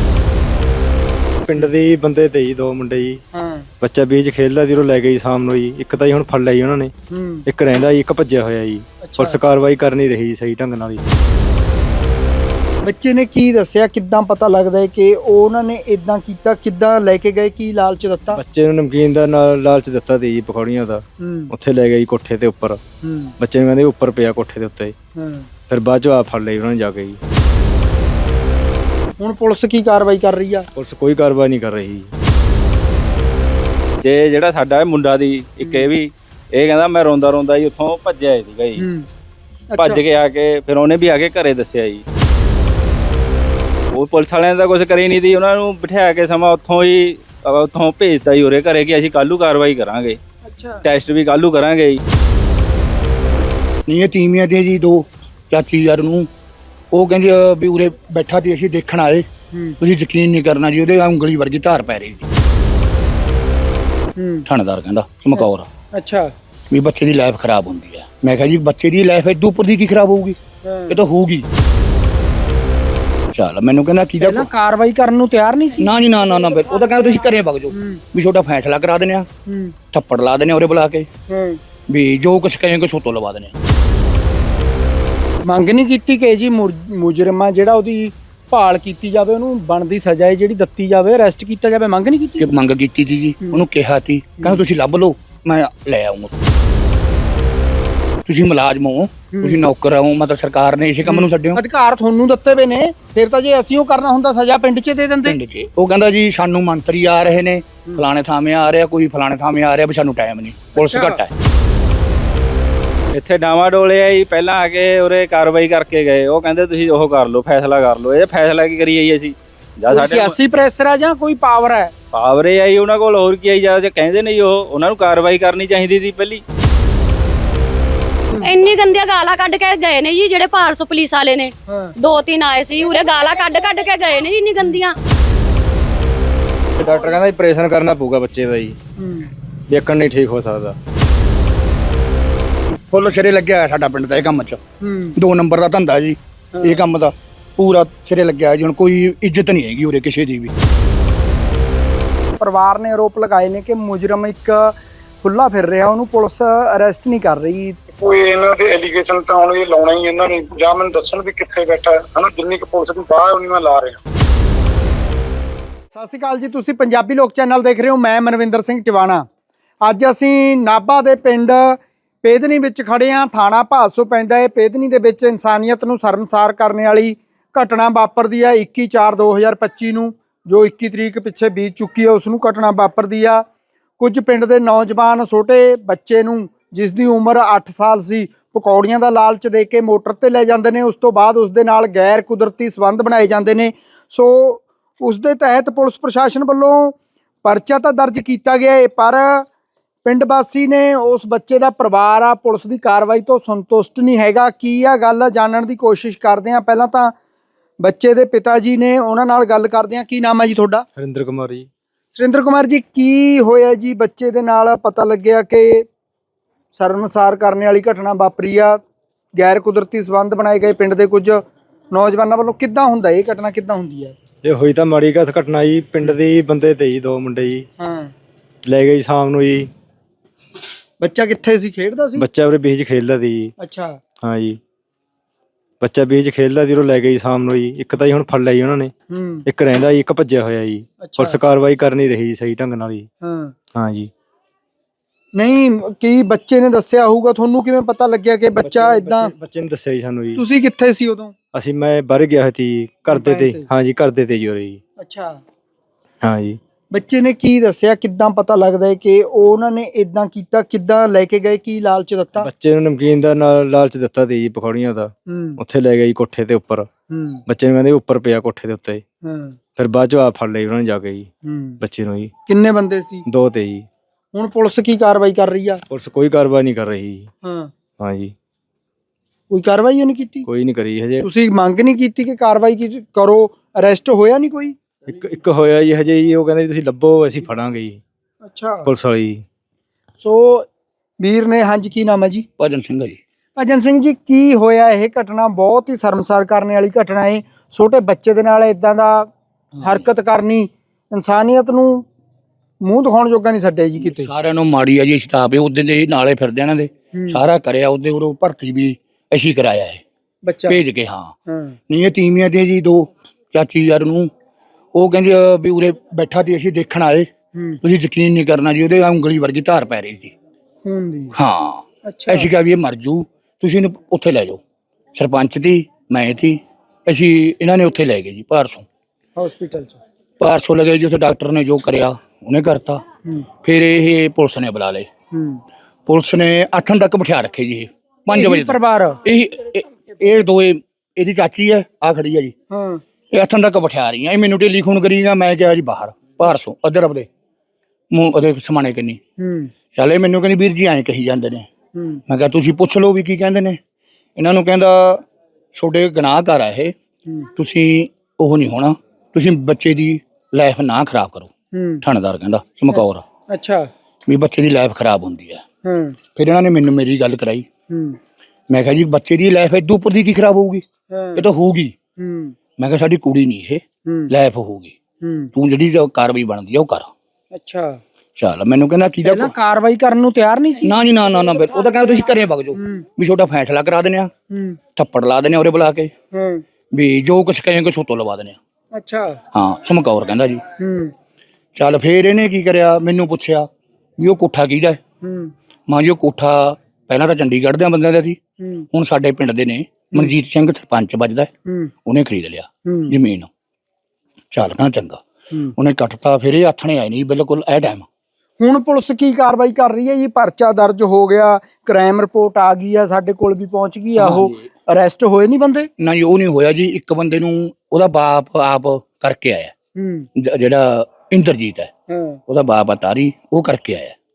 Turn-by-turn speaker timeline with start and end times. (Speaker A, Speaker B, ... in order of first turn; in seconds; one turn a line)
Speaker A: 1.4-3.2
Speaker B: 3.3-3.7
Speaker A: 3.8-6.9
Speaker B: 7.1-7.4
Speaker A: 7.5-11.1
Speaker B: 9.0-9.4
Speaker B: 12.8-18.4
Speaker A: 18.3-22.8
Speaker B: 21.2-21.5
Speaker B: 23.0-23.3
Speaker A: 23.4-24.9
Speaker B: 25.2-25.5
Speaker A: 25.7-27.2
Speaker B: 29.2-30.7
Speaker A: 30.7-32.1
Speaker C: 34.0-38.8
Speaker B: 38.8-39.1
Speaker B: 39.7-40.0
Speaker C: 39.8-42.0
Speaker C: 43.9-50.2
Speaker B: 50.4-50.8
Speaker C: 50.8-52.0
Speaker D: 53.9-56.3
Speaker D: 56.9-59.3
Speaker B: 59.5-59.8
Speaker D: 59.8-62.2
Speaker B: 64.2-64.5
Speaker D: 64.5-65.7
Speaker B: 65.3-66.3
Speaker D: 66.7-70.4
Speaker B: 70.6-71.0
Speaker D: 70.9-71.5
Speaker D: 73.3-74.5
Speaker B: 74.2-75.9
Speaker D: 75.8-79.2
Speaker B: 77.7-78.0
Speaker B: 79.5-79.7
Speaker D: 79.9-81.1
Speaker B: 81.3-81.6
Speaker D: 81.9-83.5
Speaker B: 85.5-92.5
Speaker D: 92.4-96.3
Speaker D: 98.2-101.6
Speaker B: 101.0-105.3
Speaker D: 105.2-111.3
Speaker B: 110.8-111.2
Speaker C: 113.1-120.3
Speaker B: 119.9-121.9
Speaker C: 122.1-126.4
Speaker E: 128.4-134.9
Speaker B: 131.7-131.9
Speaker A: 136.8-138.8
Speaker B: 139.0-139.3
Speaker A: 139.7-140.8
Speaker D: 142.7-144.6
Speaker B: 144.8-145.2
Speaker D: 145.2-150.5
Speaker B: 146.5-146.8
Speaker B: 152.4-157.8
Speaker F: 158.0-164.0
Speaker B: 165.9-169.2
Speaker B: 169.8-183.4
Speaker B: 184.0-199.5
Speaker B: 200.0-207.1
Speaker B: 207.8-210.8
Speaker A: 210.9-211.7
Speaker B: 212.1-215.8
Speaker B: 216.7-218.8
Speaker B: 219.3-224.1
Speaker A: 224.4-227.7
Speaker B: 227.8-228.1
Speaker A: 228.6-229.7
Speaker B: 231.0-232.2
Speaker A: 232.2-233.5
Speaker B: 233.6-234.0
Speaker A: 234.2-234.6
Speaker A: 235.8-238.9
Speaker B: 239.1-239.4
Speaker A: 239.4-243.1
Speaker B: 241.0-241.4
Speaker B: 243.2-243.5
Speaker A: 243.7-244.1
Speaker B: 245.3-249.3
Speaker A: 248.6-250.4
Speaker B: 250.3-251.3
Speaker A: 251.5-254.8
Speaker B: 253.1-253.7
Speaker B: 255.0-255.4
Speaker A: 256.2-256.6
Speaker B: 256.9-262.5
Speaker A: 262.4-266.9
Speaker B: 265.3-265.6
Speaker B: 267.1-267.4
Speaker A: 267.5-269.0
Speaker B: 269.2-269.6
Speaker A: 269.8-271.3
Speaker B: 271.4-271.8
Speaker A: 271.8-272.3
Speaker B: 272.5-273.2
Speaker A: 273.3-273.9
Speaker B: 274.3-275.8
Speaker A: 275.9-277.3
Speaker B: 277.4-277.7
Speaker A: 278.0-278.3
Speaker B: 279.5-280.5
Speaker A: 280.4-281.2
Speaker B: 281.2-284.8
Speaker A: 285.1-288.0
Speaker B: 288.4-288.9
Speaker A: 288.9-289.4
Speaker B: 290.2-290.7
Speaker B: 291.2-292.4
Speaker D: 292.6-293.2
Speaker B: 293.6-299.3
Speaker D: 299.8-300.0
Speaker B: 299.8-302.1
Speaker B: 302.8-304.3
Speaker D: 304.0-310.0
Speaker B: 307.1-307.4
Speaker B: 310.4-310.8
Speaker D: 310.7-311.3
Speaker B: 311.5-311.8
Speaker D: 311.9-314.3
Speaker D: 314.9-317.3
Speaker B: 317.5-317.8
Speaker D: 317.8-320.3
Speaker B: 320.8-321.3
Speaker D: 321.3-324.6
Speaker B: 322.1-322.5
Speaker D: 325.1-328.8
Speaker B: 329.4-330.0
Speaker D: 330.4-333.0
Speaker D: 333.6-335.1
Speaker B: 335.3-335.6
Speaker D: 336.1-342.5
Speaker B: 338.3-339.2
Speaker B: 342.7-343.0
Speaker D: 343.3-347.3
Speaker D: 348.1-349.2
Speaker B: 349.4-349.7
Speaker D: 349.9-351.7
Speaker B: 351.9-352.2
Speaker D: 352.3-353.8
Speaker D: 354.4-355.2
Speaker D: 355.7-356.9
Speaker D: 357.6-361.5
Speaker B: 361.7-362.0
Speaker D: 362.0-363.2
Speaker B: 362.9-363.9
Speaker D: 364.3-365.6
Speaker B: 365.8-366.2
Speaker D: 366.3-367.7
Speaker B: 367.9-368.2
Speaker D: 368.7-370.8
Speaker B: 371.1-371.4
Speaker D: 371.4-371.9
Speaker B: 372.2-372.5
Speaker D: 372.8-374.9
Speaker B: 374.1-374.3
Speaker B: 375.2-375.5
Speaker D: 375.5-377.1
Speaker B: 377.5-378.0
Speaker D: 378.4-379.5
Speaker B: 379.2-380.9
Speaker D: 380.8-384.3
Speaker B: 382.7-383.0
Speaker B: 384.5-384.8
Speaker D: 384.9-386.1
Speaker B: 386.3-386.6
Speaker D: 386.9-388.6
Speaker B: 388.9-389.4
Speaker D: 389.5-390.6
Speaker B: 390.8-391.1
Speaker D: 391.8-393.6
Speaker D: 394.2-395.0
Speaker B: 395.2-395.5
Speaker D: 395.9-398.4
Speaker B: 398.6-398.9
Speaker D: 398.9-401.5
Speaker B: 401.7-401.9
Speaker D: 402.1-403.5
Speaker B: 402.9-403.1
Speaker D: 404.5-405.2
Speaker D: 405.8-408.0
Speaker B: 408.6-415.9
Speaker D: 414.2-414.6
Speaker D: 416.0-419.7
Speaker B: 419.9-420.3
Speaker D: 420.4-421.9
Speaker B: 422.1-422.4
Speaker D: 422.5-424.1